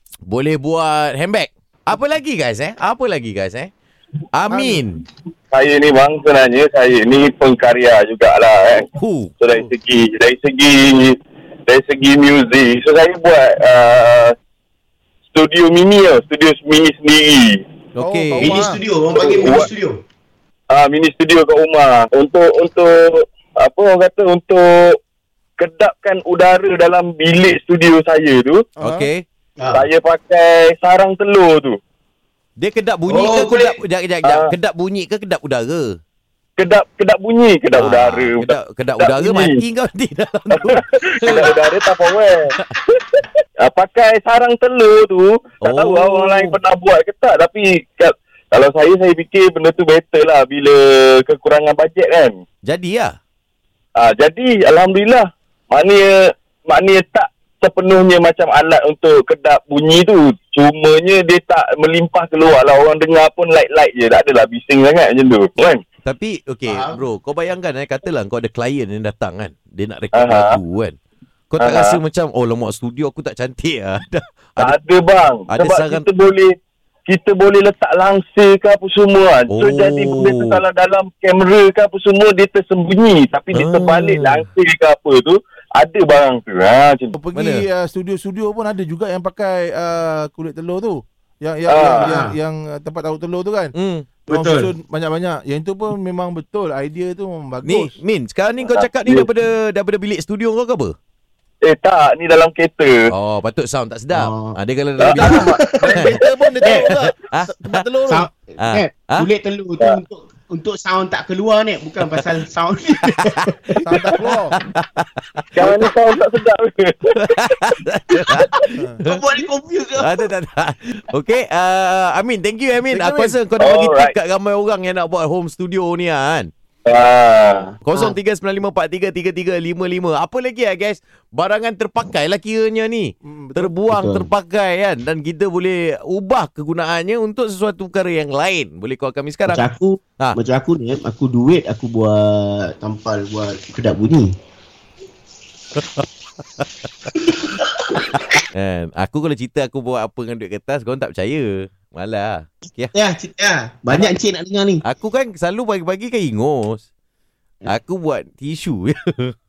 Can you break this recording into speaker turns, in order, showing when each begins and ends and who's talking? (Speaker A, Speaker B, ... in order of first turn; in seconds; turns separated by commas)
Speaker A: 0.3-3.7, Speaker A: 4.3-5.0, Speaker B: 4.5-4.8, Speaker C: 5.5-14.3, Speaker A: 9.0-9.3, Speaker C: 15.3-17.6, Speaker A: 18.0-18.5, Speaker B: 18.0-18.8, Speaker D: 18.4-20.0, Speaker C: 19.1-19.7, Speaker C: 20.7-25.0, Speaker C: 25.6-28.6, Speaker B: 28.8-29.1, Speaker A: 28.8-29.2, Speaker D: 29.6-29.9, Speaker C: 29.7-31.8, Speaker A: 32.6-36.0, Speaker D: 33.1-33.8, Speaker C: 36.6-39.6, Speaker A: 37.8-41.5, Speaker C: 40.5-42.5, Speaker C: 43.1-52.4, Speaker A: 45.6-46.6, Speaker A: 52.7-53.1, Speaker C: 54.0-65.8, Speaker A: 66.0-71.0, Speaker D: 66.7-67.0, Speaker C: 70.1-70.6, Speaker A: 71.5-74.8, Speaker C: 71.6-72.0, Speaker C: 74.6-76.5, Speaker A: 75.5-76.1, Speaker C: 77.1-87.1, Speaker A: 79.5-80.6, Speaker A: 83.5-84.5, Speaker B: 87.2-93.7, Speaker A: 87.3-87.6, Speaker C: 91.7-92.2, Speaker D: 92.0-92.3, Speaker A: 93.8-94.1, Speaker B: 94.3-98.0, Speaker D: 94.3-94.7, Speaker A: 97.6-101.0, Speaker C: 98.6-99.3, Speaker C: 101.6-103.0, Speaker A: 103.1-107.8, Speaker D: 104.1-104.6, Speaker C: 105.0-106.1, Speaker B: 105.1-108.3, Speaker D: 105.2-106.0, Speaker D: 108.1-113.7, Speaker A: 108.6-109.3, Speaker A: 113.1-113.4, Speaker B: 113.8-114.6, Speaker A: 114.1-115.8, Speaker C: 115.5-117.8, Speaker A: 117.2-119.2, Speaker C: 118.3-118.7, Speaker B: 118.7-119.0, Speaker D: 119.0-120.3, Speaker A: 120.0-126.5, Speaker B: 122.9-123.4, Speaker C: 123.6-124.1, Speaker C: 126.9-127.7, Speaker A: 127.8-139.7, Speaker B: 133.2-133.7, Speaker D: 133.9-134.3, Speaker D: 139.5-144.3, Speaker A: 145.8-146.1, Speaker D: 147.1-148.0, Speaker A: 148.1-152.9, Speaker D: 152.9-154.8, Speaker A: 154.8-156.8, Speaker A: 157.7-159.3